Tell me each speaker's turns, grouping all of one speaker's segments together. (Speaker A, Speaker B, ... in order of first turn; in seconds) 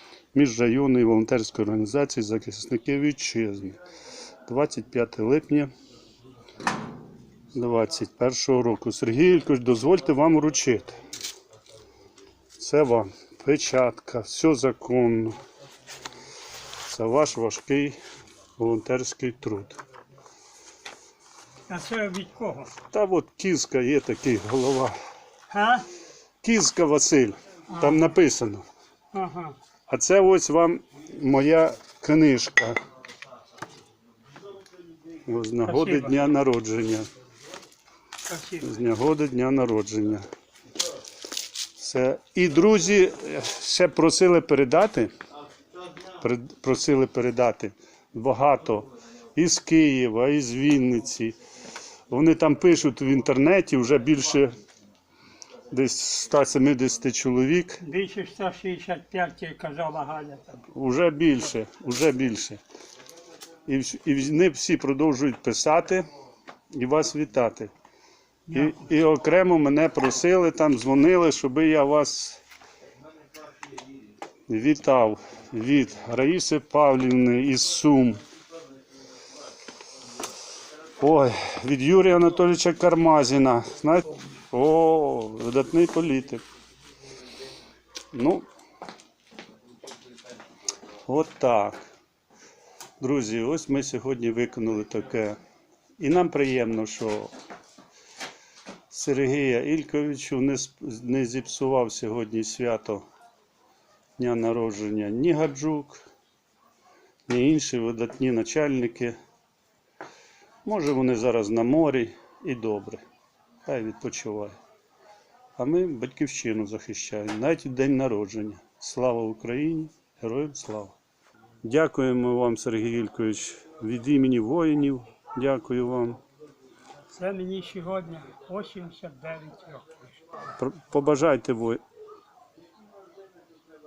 Speaker A: 0.3-3.8, 4.5-5.7, 7.5-11.0, 12.6-15.4, 16.9-18.0, 18.6-19.8, 22.9-25.0, 26.4-28.6, 29.9-32.8, 35.3-37.1, 38.6-40.3, 41.8-45.1, 46.2-51.4, 52.1-54.5, 55.7-57.8, 60.7-62.6, 63.7-66.1, 66.7-67.7, 68.5-72.4, 74.5-78.2, 81.0-86.4, 88.1-88.5, 91.1-91.8, 93.0-95.4, 96.0-97.3, 98.9-103.0, 104.2-106.0, 107.3-109.2, 110.6-113.0, 113.6-114.6, 115.6-121.0, 121.6-126.2, 130.6-131.8
Speaker B: 21.7-22.7, 25.5-25.9, 27.7-28.1, 29.1-29.6, 35.6-36.2, 38.3-38.7, 57.8-60.6, 68.5-68.8, 127.1-130.1